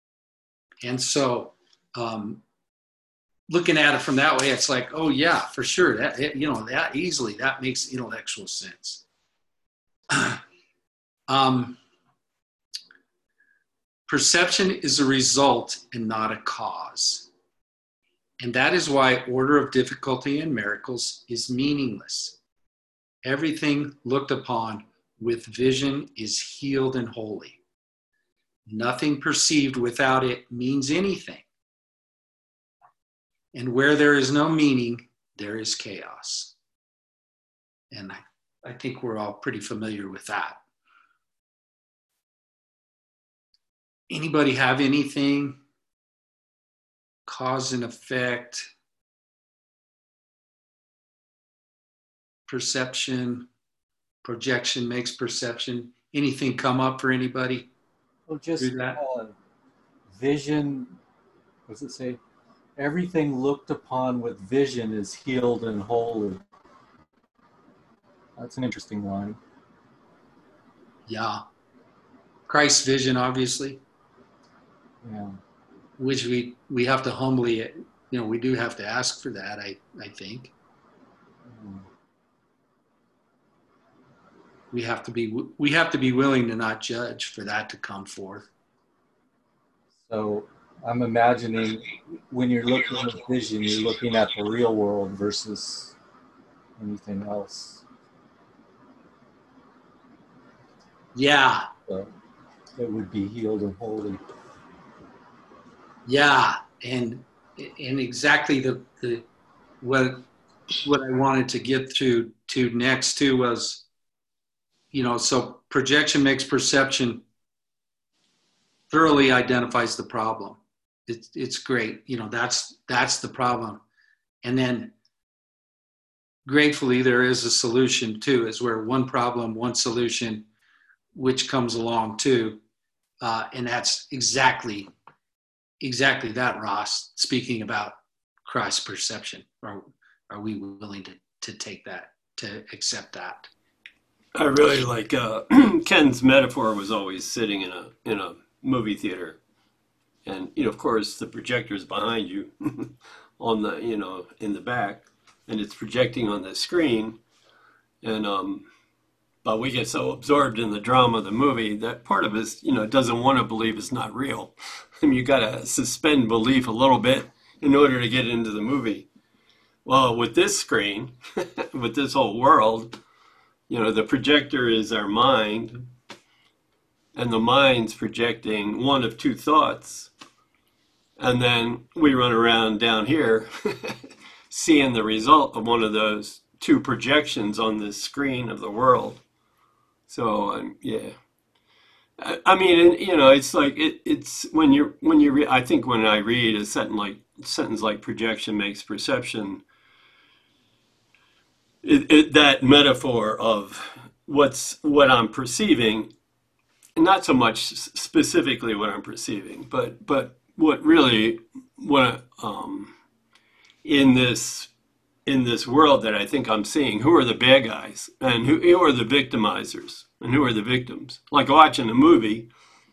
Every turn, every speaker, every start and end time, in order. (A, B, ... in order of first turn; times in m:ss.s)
0:00.8-0:02.4 A
0:03.5-0:09.0 A
0:10.1-0:10.4 A
0:11.3-0:11.8 A
0:14.1-0:17.3 A
0:18.4-0:22.4 A
0:23.2-0:27.6 A
0:28.7-0:31.4 A
0:33.5-0:36.5 A
0:37.9-0:40.6 A
0:44.1-0:45.6 A
0:47.3-0:48.7 A
0:52.5-0:53.5 A
0:54.2-0:57.7 A
0:58.3-0:59.3 B
0:58.6-0:59.0 A
1:00.1-1:00.9 B
1:01.7-1:02.2 B
1:02.8-1:06.4 B
1:08.4-1:09.4 B
1:11.1-1:11.4 A
1:12.5-1:13.8 A
1:15.0-1:15.4 B
1:16.0-1:20.5 A
1:21.5-1:21.8 B
1:24.7-1:28.5 A
1:30.0-1:35.9 B
1:36.8-1:37.8 B
1:41.1-1:41.7 A
1:42.8-1:44.2 B
1:46.0-1:49.2 A
1:49.8-1:50.3 A
1:50.8-1:53.8 A
1:54.9-1:57.2 A
1:58.9-2:03.8 A
2:04.4-2:04.9 A
2:06.4-2:10.4 A
2:11.1-2:12.6 A
2:13.2-2:14.9 A
2:15.8-2:23.5 A
2:24.3-2:29.4 C
2:30.2-2:37.2 C
2:38.0-2:38.6 C
2:39.4-2:49.1 C
2:49.8-2:52.9 C
2:53.7-2:55.9 C
2:57.1-3:00.1 C
3:01.2-3:04.0 C
3:04.5-3:09.2 C
3:10.1-3:11.2 C
3:12.2-3:19.6 C
3:21.8-3:26.1 C
3:27.0-3:32.9 C
3:33.8-3:34.7 C
3:35.2-3:42.5 C